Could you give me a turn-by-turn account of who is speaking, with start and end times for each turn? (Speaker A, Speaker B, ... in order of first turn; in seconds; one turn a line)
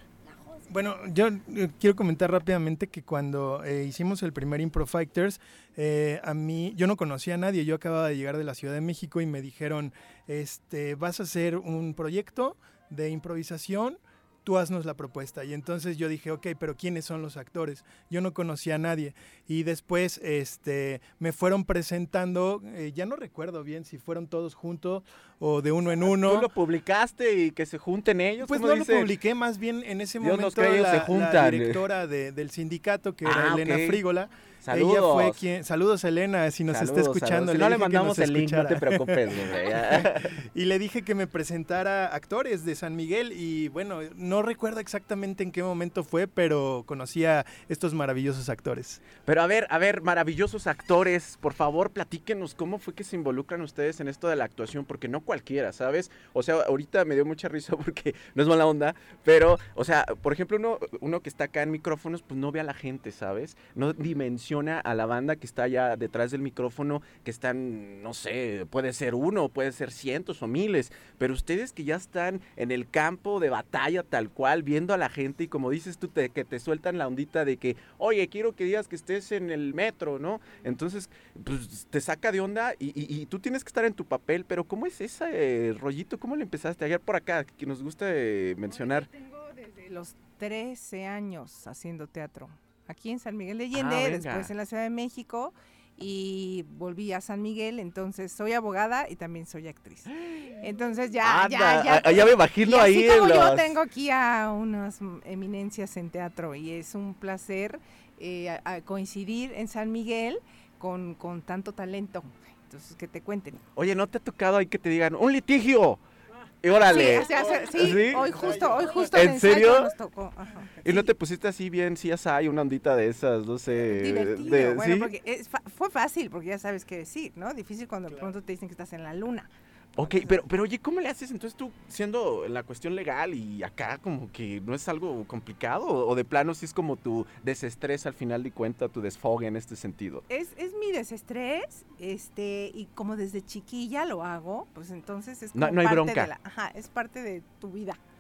Speaker A: 0.7-26.5
Speaker B: 26.2-29.1
Speaker A: 28.4-49.0
Speaker B: 30.2-31.8
Speaker B: 33.2-34.0
Speaker B: 34.6-35.4
Speaker B: 36.7-40.4
Speaker B: 49.2-89.1
Speaker C: 89.2-113.6
Speaker B: 93.7-94.5
Speaker B: 101.2-103.7
Speaker B: 113.8-116.0
Speaker B: 116.6-119.9
Speaker C: 116.8-121.1
Speaker B: 120.8-125.1
Speaker C: 123.9-129.5
Speaker B: 130.0-140.2
Speaker C: 140.3-148.0
Speaker B: 145.6-146.3